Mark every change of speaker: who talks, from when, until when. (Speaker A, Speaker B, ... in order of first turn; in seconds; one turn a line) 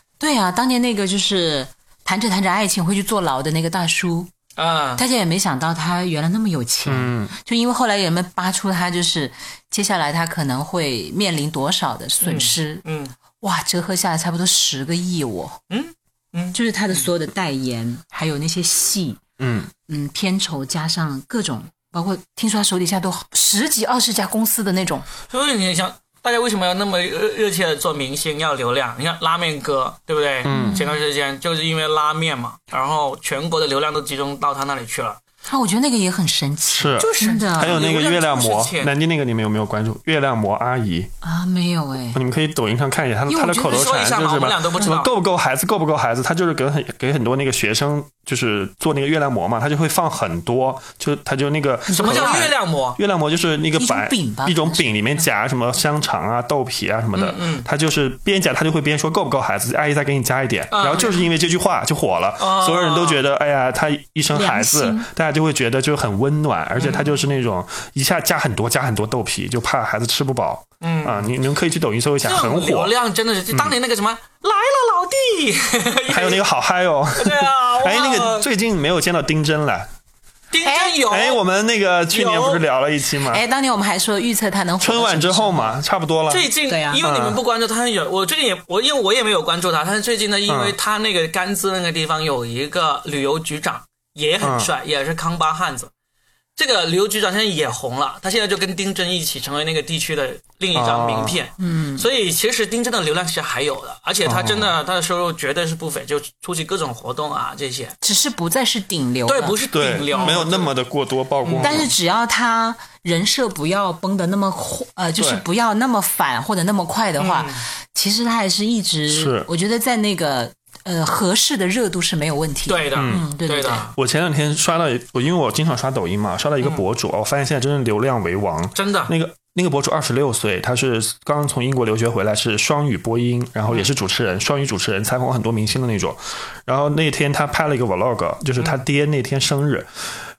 Speaker A: 0.2-4.3
Speaker B: 4.6-5.0
Speaker A: 5.0-12.8
Speaker C: 6.9-7.3
Speaker B: 12.2-13.1
Speaker A: 13.4-15.6
Speaker B: 15.7-17.0
Speaker A: 16.5-19.2
Speaker C: 19.4-19.7
Speaker A: 19.9-25.1
Speaker B: 25.3-35.2
Speaker C: 30.5-30.8
Speaker A: 30.5-30.9
Speaker A: 35.5-37.8
Speaker C: 36.7-41.1
Speaker B: 37.0-38.9
Speaker A: 41.2-42.2
Speaker C: 42.1-72.9
Speaker A: 43.3-43.9
Speaker B: 43.6-45.1
Speaker A: 51.9-52.5
Speaker B: 51.9-53.0
Speaker A: 53.8-54.9
Speaker B: 57.2-57.7
Speaker B: 60.7-61.3
Speaker B: 62.4-63.2
Speaker A: 64.3-65.1
Speaker B: 66.8-67.0
Speaker B: 70.8-71.3
Speaker B: 72.2-76.4
Speaker C: 76.1-79.9
Speaker B: 77.2-78.5
Speaker B: 80.5-81.4
Speaker A: 80.6-81.0
Speaker C: 81.1-83.4
Speaker B: 82.1-82.6
Speaker A: 83.3-85.8
Speaker C: 84.8-87.4
Speaker B: 86.3-95.9
Speaker A: 86.7-87.0
Speaker C: 90.5-90.8
Speaker C: 94.4-94.7
Speaker B: 96.6-108.0
Speaker C: 100.7-101.4
Speaker A: 101.6-102.1
Speaker C: 104.2-104.7
Speaker A: 108.0-109.6
Speaker B: 109.3-110.7
Speaker C: 109.7-111.9
Speaker A: 110.1-110.4
Speaker B: 111.4-111.9
Speaker A: 111.6-123.8
Speaker C: 115.2-115.4
Speaker B: 117.2-117.7
Speaker C: 119.1-119.5
Speaker B: 122.7-123.9
Speaker C: 123.0-123.2
Speaker C: 124.0-139.9
Speaker B: 128.8-129.1